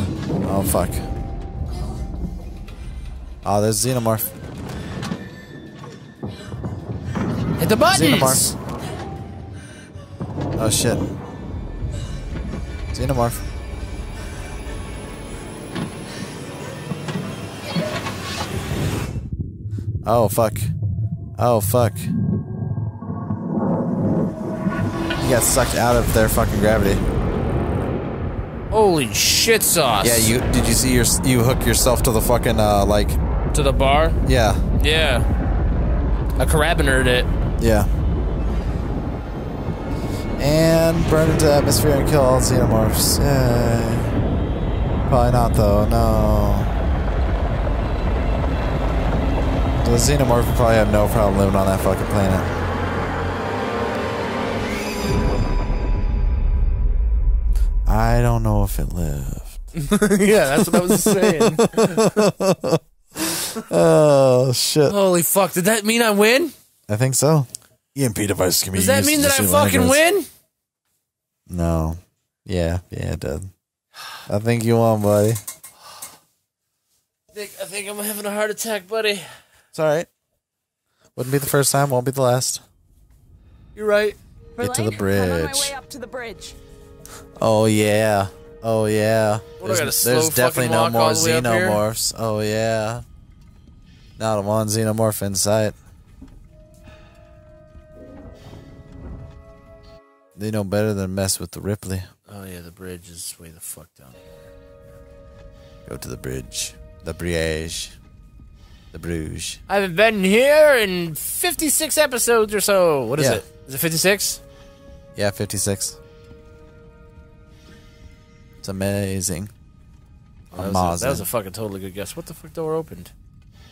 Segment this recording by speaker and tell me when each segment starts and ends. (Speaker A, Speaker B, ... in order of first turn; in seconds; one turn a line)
Speaker A: 0.4-1.1
Speaker A: 3.4-4.3
Speaker B: 7.6-8.6
Speaker A: 7.9-8.4
Speaker A: 10.6-11.0
Speaker A: 12.9-13.4
Speaker A: 20.0-20.7
Speaker A: 21.4-22.1
Speaker A: 25.2-27.0
Speaker B: 28.7-30.3
Speaker A: 30.0-33.2
Speaker B: 33.5-34.2
Speaker A: 34.3-34.6
Speaker B: 34.7-35.3
Speaker B: 36.4-37.3
Speaker A: 37.6-37.9
Speaker A: 40.4-44.1
Speaker A: 45.1-46.7
Speaker A: 49.8-52.5
Speaker A: 57.9-59.6
Speaker B: 59.8-62.2
Speaker A: 60.6-65.0
Speaker B: 64.9-66.5
Speaker A: 66.9-70.0
Speaker B: 68.7-70.3
Speaker A: 71.5-73.5
Speaker A: 74.3-75.4
Speaker B: 77.3-79.3
Speaker A: 79.7-80.1
Speaker A: 81.2-82.6
Speaker B: 83.8-84.2
Speaker C: 84.6-86.6
Speaker A: 84.6-85.7
Speaker A: 87.4-93.0
Speaker B: 89.6-91.8
Speaker A: 94.2-95.8
Speaker A: 100.3-102.1
Speaker B: 102.3-104.5
Speaker A: 105.9-108.0
Speaker A: 108.9-109.6
Speaker B: 109.7-114.4
Speaker A: 113.2-113.4
Speaker A: 115.2-116.0
Speaker A: 118.6-119.5
Speaker B: 120.5-123.1
Speaker A: 120.5-121.3